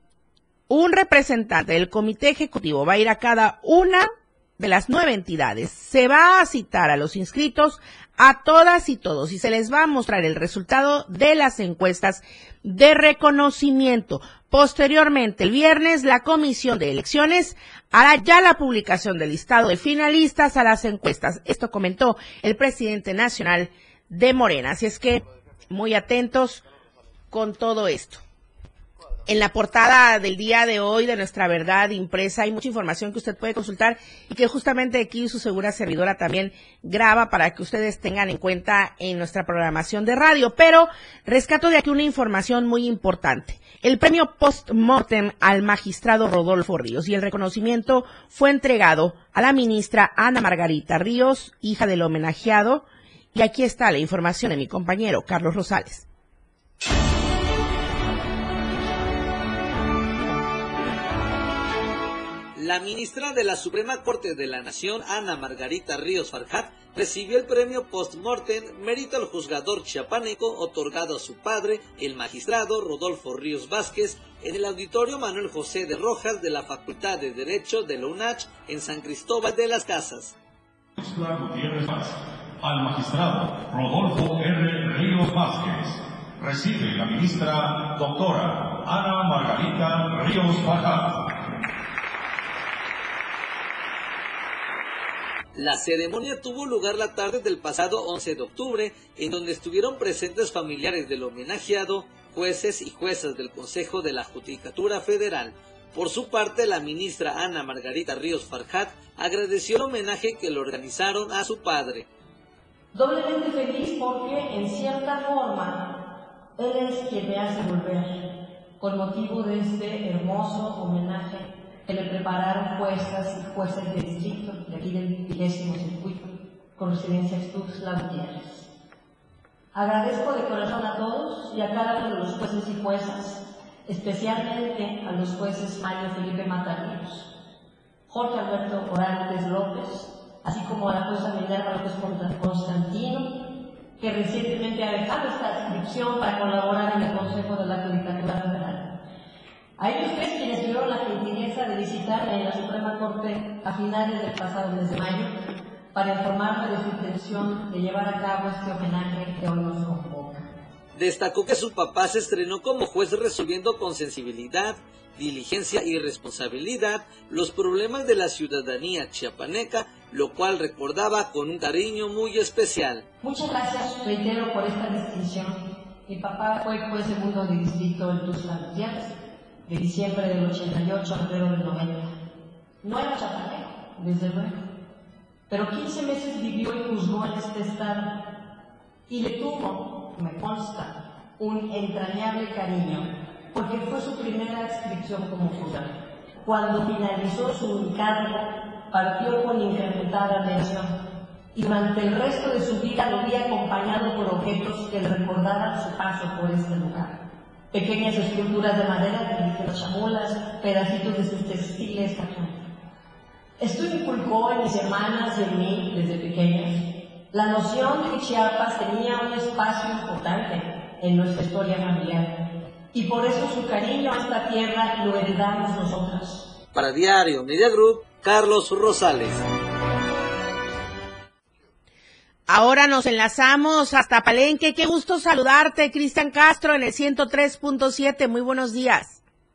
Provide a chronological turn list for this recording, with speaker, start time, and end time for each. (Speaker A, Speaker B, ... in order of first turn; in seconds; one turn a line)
Speaker A: 0.7-26.6
Speaker A: 27.3-28.2
Speaker A: 29.2-56.0
Speaker B: 62.5-80.3
Speaker C: 81.0-91.4
Speaker B: 95.5-112.1
Speaker D: 112.9-115.9
Speaker D: 116.6-118.2
Speaker D: 118.8-128.7
Speaker D: 129.7-137.3
Speaker D: 138.1-143.4
Speaker D: 144.0-149.0
Speaker D: 149.8-155.3
Speaker D: 155.9-160.4
Speaker B: 160.9-173.1
Speaker D: 173.2-179.2
Speaker D: 179.7-182.2
Speaker D: 182.8-184.6
Speaker D: 185.5-188.3
Speaker D: 189.1-201.0
Speaker D: 201.5-212.6
Speaker D: 213.6-222.3
Speaker D: 222.9-226.4
Speaker B: 226.7-229.4
Speaker A: 232.5-239.2